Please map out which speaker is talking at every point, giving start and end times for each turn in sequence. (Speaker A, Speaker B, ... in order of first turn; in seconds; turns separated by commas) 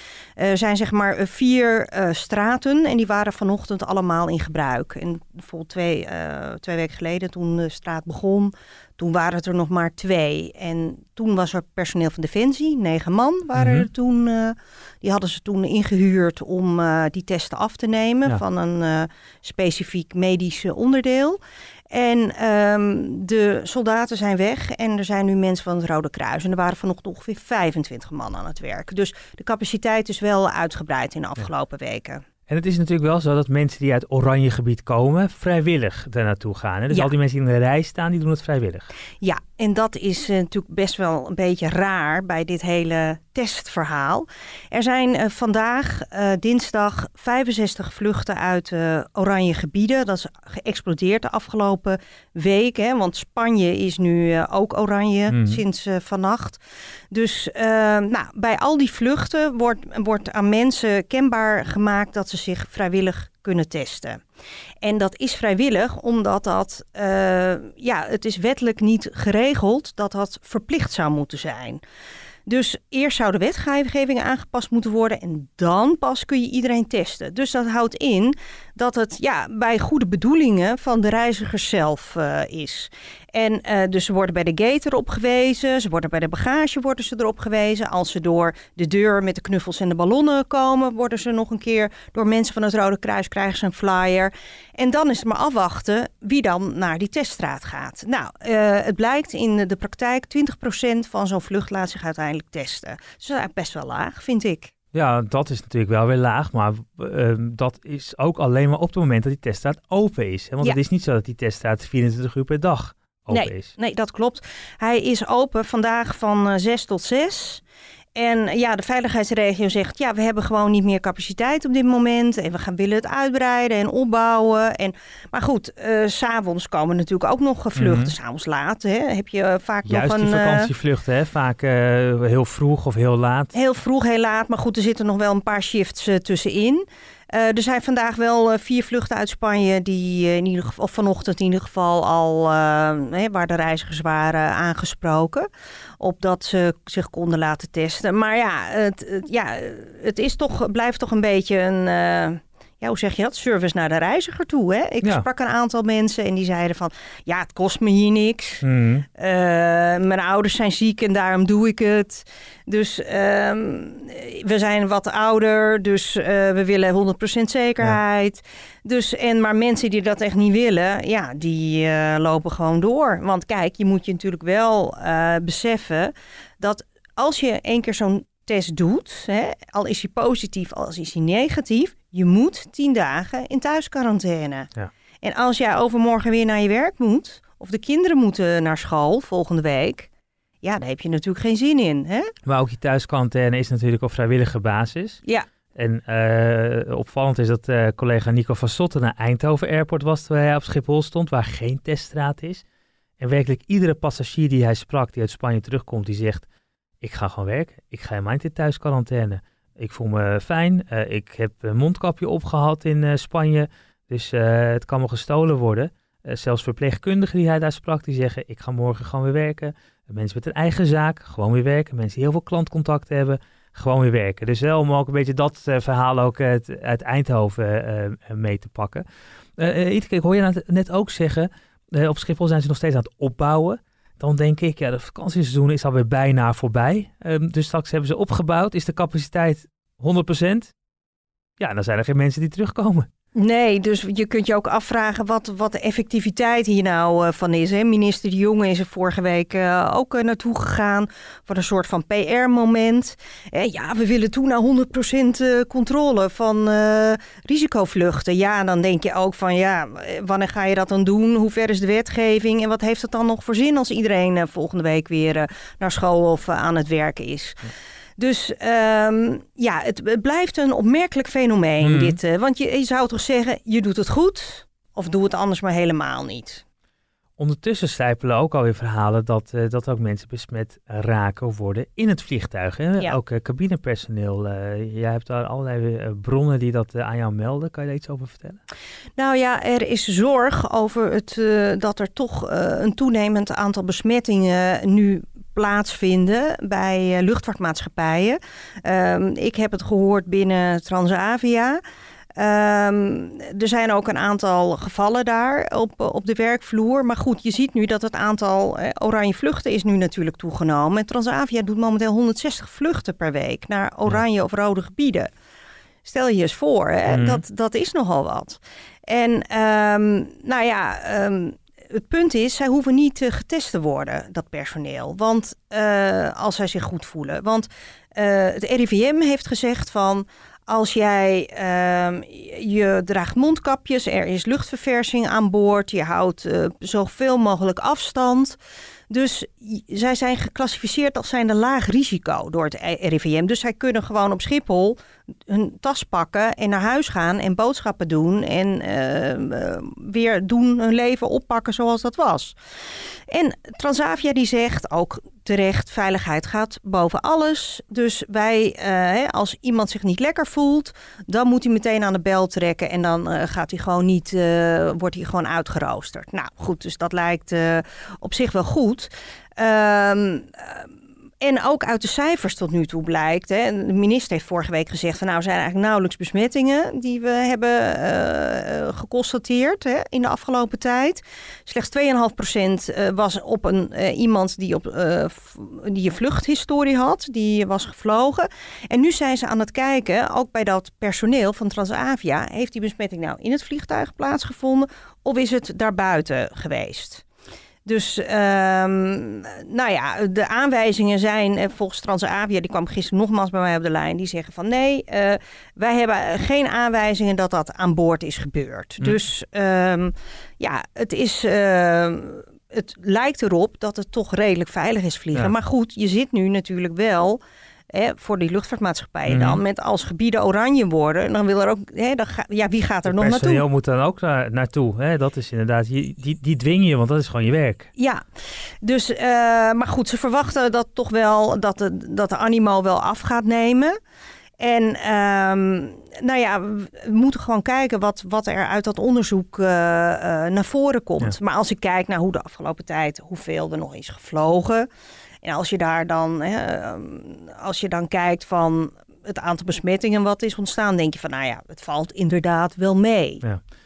Speaker A: 0.4-21.4, Speaker B: 13.5-13.9, Speaker A: 21.9-32.2, Speaker B: 32.5-38.9, Speaker A: 39.2-64.2, Speaker B: 55.3-55.6, Speaker A: 64.8-71.8, Speaker A: 72.5-104.7, Speaker B: 104.9-113.7, Speaker A: 113.3-117.6, Speaker A: 118.2-130.7, Speaker B: 127.8-128.1, Speaker B: 129.8-133.5, Speaker A: 133.5-145.5, Speaker A: 146.0-158.7, Speaker B: 158.6-159.1, Speaker A: 159.2-184.7, Speaker A: 185.2-190.1, Speaker A: 190.6-192.3, Speaker B: 192.5-195.2, Speaker B: 195.8-202.6, Speaker B: 203.2-206.5, Speaker B: 207.0-229.1, Speaker B: 229.6-240.7, Speaker B: 241.6-243.1, Speaker A: 243.3-276.6, Speaker B: 271.8-272.2, Speaker B: 277.4-288.6, Speaker A: 289.2-301.8, Speaker A: 302.4-315.3, Speaker A: 316.0-338.6, Speaker B: 317.1-317.4, Speaker A: 339.1-352.6, Speaker A: 353.3-370.9, Speaker A: 371.4-397.2, Speaker A: 397.9-417.4, Speaker A: 417.9-423.6, Speaker B: 419.3-419.6, Speaker B: 423.1-427.9, Speaker A: 428.0-428.2, Speaker A: 428.8-433.9, Speaker A: 434.6-444.9, Speaker A: 445.4-453.4